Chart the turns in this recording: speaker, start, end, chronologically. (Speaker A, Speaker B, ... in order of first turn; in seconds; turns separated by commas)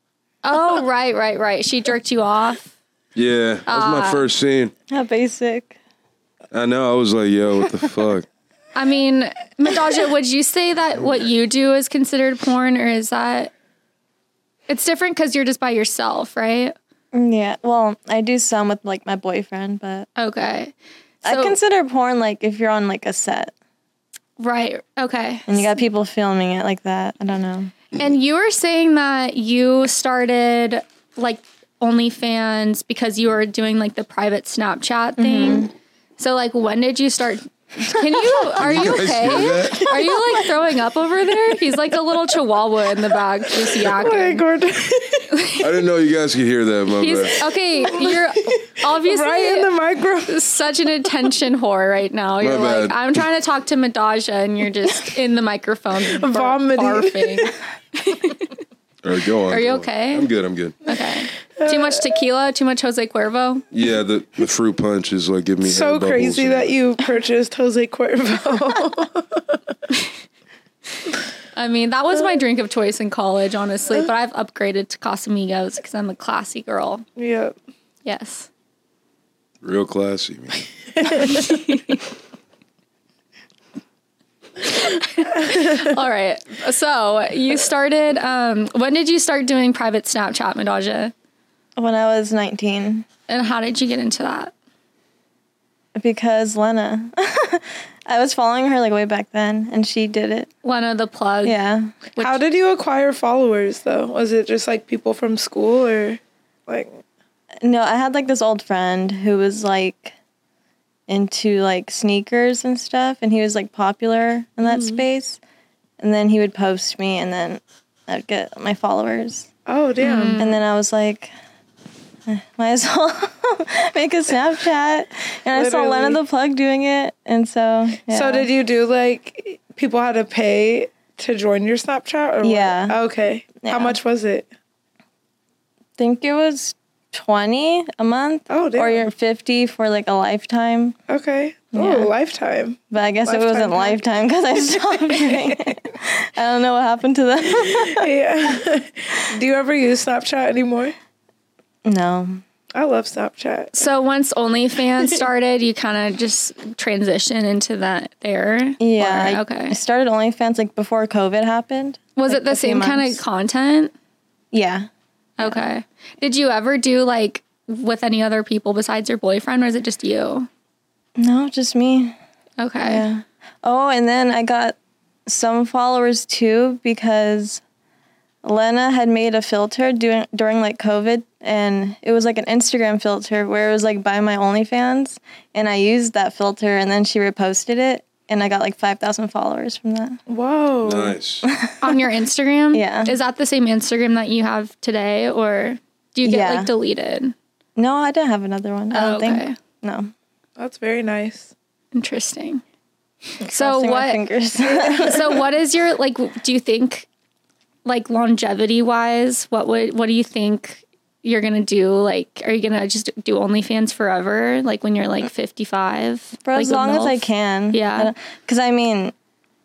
Speaker A: 0.4-2.7, Speaker B: 3.1-4.7, Speaker A: 3.7-4.2, Speaker C: 4.9-5.8, Speaker B: 6.5-8.2, Speaker A: 8.8-13.5, Speaker A: 14.7-16.8, Speaker C: 17.1-20.1, Speaker A: 20.2-20.7, Speaker C: 21.2-23.5, Speaker A: 21.2-21.6, Speaker A: 24.4-25.7, Speaker C: 25.5-27.7, Speaker A: 27.9-44.4, Speaker C: 35.2-35.7, Speaker B: 38.6-40.0, Speaker D: 39.7-40.5, Speaker D: 43.7-45.4, Speaker A: 45.3-45.6, Speaker B: 45.6-47.3, Speaker A: 47.0-49.7, Speaker D: 47.8-50.4, Speaker A: 50.3-58.5, Speaker B: 52.4-53.0, Speaker D: 56.1-57.5, Speaker B: 59.0-60.8, Speaker A: 59.5-60.3, Speaker A: 60.8-63.6, Speaker D: 61.6-62.1, Speaker B: 63.7-66.7, Speaker D: 65.6-69.6, Speaker A: 71.5-77.0, Speaker D: 77.2-77.5, Speaker A: 78.0-78.5, Speaker B: 79.6-80.6, Speaker D: 81.0-81.4, Speaker A: 81.2-82.0, Speaker A: 84.6-91.1, Speaker C: 91.8-93.0, Speaker A: 93.3-94.5, Speaker C: 96.0-100.5, Speaker A: 100.6-101.6, Speaker C: 101.4-102.0, Speaker D: 102.2-107.0, Speaker C: 107.6-110.1, Speaker C: 111.1-115.4, Speaker D: 114.7-115.0, Speaker C: 116.0-119.5, Speaker D: 119.7-120.4, Speaker A: 120.0-120.6, Speaker C: 120.4-121.3, Speaker C: 122.3-128.5, Speaker D: 125.5-126.2, Speaker D: 128.1-134.5, Speaker C: 132.4-133.0, Speaker C: 133.6-134.0, Speaker C: 136.0-141.0, Speaker D: 138.5-139.0, Speaker D: 141.1-144.0, Speaker C: 141.7-142.1, Speaker C: 142.9-148.1, Speaker D: 144.7-145.7, Speaker D: 147.8-150.9, Speaker C: 151.8-152.4, Speaker D: 152.7-153.8, Speaker A: 153.7-159.8, Speaker C: 158.8-163.2, Speaker A: 162.2-163.9, Speaker C: 164.5-164.9, Speaker A: 165.4-170.5, Speaker C: 165.4-165.7, Speaker C: 171.2-172.2, Speaker A: 172.6-173.1, Speaker C: 172.8-177.6, Speaker C: 178.4-190.2, Speaker D: 190.3-191.2, Speaker B: 190.8-191.5, Speaker C: 191.4-191.9, Speaker A: 191.8-197.3, Speaker C: 192.7-193.1, Speaker C: 196.2-196.7, Speaker C: 197.8-200.1, Speaker A: 198.9-199.6, Speaker D: 200.6-201.5, Speaker A: 201.9-202.6, Speaker A: 203.4-204.2, Speaker C: 203.5-205.4, Speaker A: 205.0-207.1, Speaker A: 207.8-218.1, Speaker C: 216.4-219.1